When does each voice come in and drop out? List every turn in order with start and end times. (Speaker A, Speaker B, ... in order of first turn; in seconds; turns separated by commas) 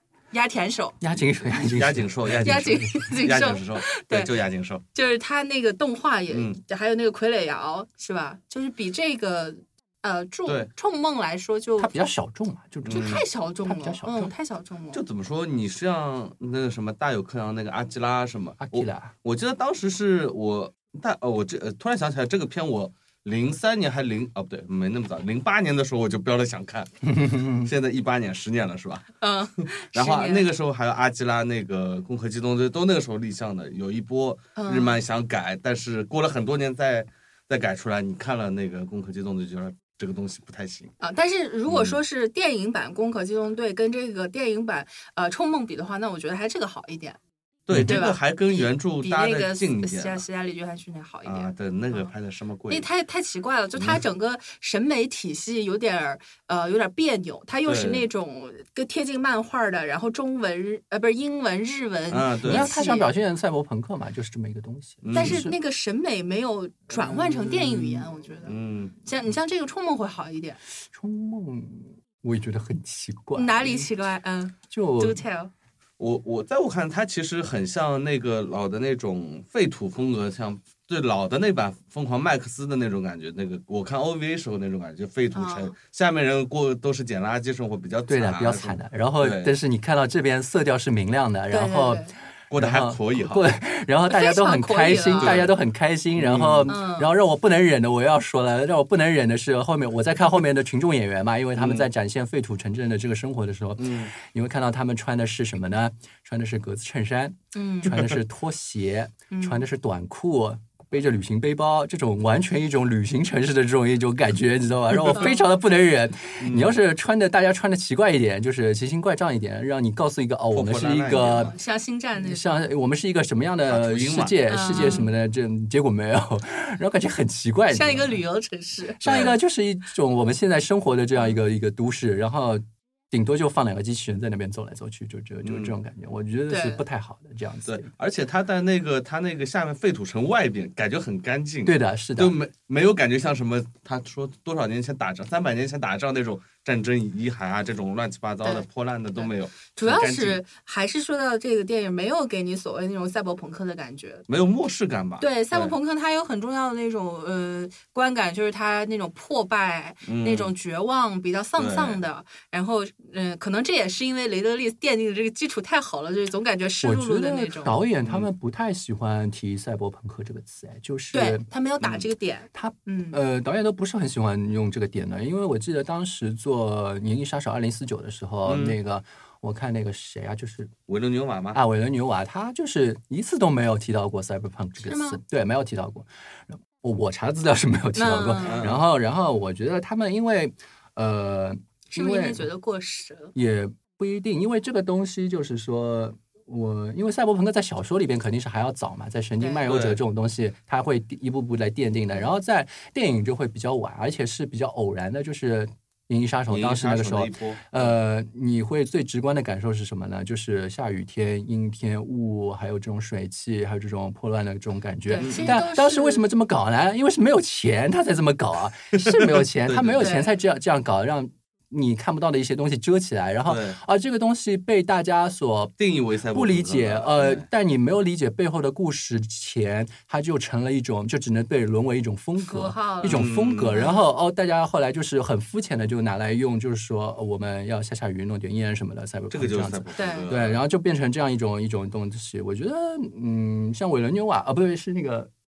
Speaker A: 0.3-1.0, Speaker B: 1.0-3.0, Speaker C: 1.5-4.8, Speaker A: 2.4-4.4, Speaker A: 4.9-11.9, Speaker C: 6.3-6.6, Speaker B: 11.8-14.3, Speaker C: 12.8-13.2, Speaker A: 12.9-15.0, Speaker C: 14.9-29.1, Speaker B: 18.6-19.1, Speaker B: 27.0-27.7, Speaker A: 29.2-30.5, Speaker C: 29.9-40.9, Speaker A: 34.6-35.0, Speaker A: 41.0-47.2, Speaker C: 41.7-42.0, Speaker C: 47.7-50.2, Speaker B: 47.7-48.0, Speaker A: 47.9-52.1, Speaker C: 51.2-52.9, Speaker A: 52.7-63.1, Speaker C: 57.7-58.0, Speaker C: 62.1-62.7, Speaker B: 62.4-65.5, Speaker C: 65.0-65.5, Speaker A: 65.1-70.6, Speaker C: 67.0-69.0, Speaker B: 70.9-73.9, Speaker A: 73.3-75.5, Speaker B: 74.7-75.2, Speaker C: 76.0-89.5, Speaker A: 85.3-85.7, Speaker B: 88.1-121.5, Speaker A: 91.5-92.1, Speaker C: 92.5-93.5, Speaker A: 94.1-95.4, Speaker C: 95.2-95.5, Speaker C: 96.2-96.8, Speaker A: 96.7-97.1, Speaker C: 101.5-101.9, Speaker C: 103.8-104.1, Speaker A: 107.5-108.0, Speaker A: 109.3-109.6, Speaker A: 115.1-115.4, Speaker C: 116.4-116.8, Speaker C: 120.5-121.5, Speaker A: 121.4-122.6, Speaker B: 122.2-128.2, Speaker C: 123.7-125.1, Speaker A: 124.5-125.1, Speaker A: 127.7-129.0, Speaker B: 129.0-137.9, Speaker C: 129.0-129.4, Speaker C: 135.4-135.8, Speaker A: 136.5-136.8, Speaker C: 137.7-150.4, Speaker B: 141.7-142.4, Speaker A: 149.2-154.2, Speaker C: 154.3-155.8, Speaker A: 155.2-167.8, Speaker C: 160.1-160.5, Speaker C: 161.6-162.0, Speaker B: 166.8-171.5, Speaker A: 171.1-173.2, Speaker C: 171.8-172.1, Speaker B: 172.5-180.7, Speaker C: 178.5-178.8, Speaker C: 180.9-181.6, Speaker B: 181.5-192.5, Speaker A: 184.8-185.2, Speaker A: 188.0-188.7, Speaker C: 188.4-188.8, Speaker A: 191.9-193.3, Speaker B: 193.3-225.7, Speaker A: 199.4-199.7, Speaker C: 199.7-200.0, Speaker C: 206.5-207.9, Speaker A: 215.1-216.3, Speaker C: 215.2-215.5, Speaker C: 219.0-220.2, Speaker A: 220.0-220.3, Speaker C: 223.5-223.8, Speaker C: 225.8-227.5, Speaker B: 226.3-245.3, Speaker A: 232.4-234.1, Speaker C: 233.0-233.8, Speaker C: 239.3-240.6, Speaker A: 240.0-240.3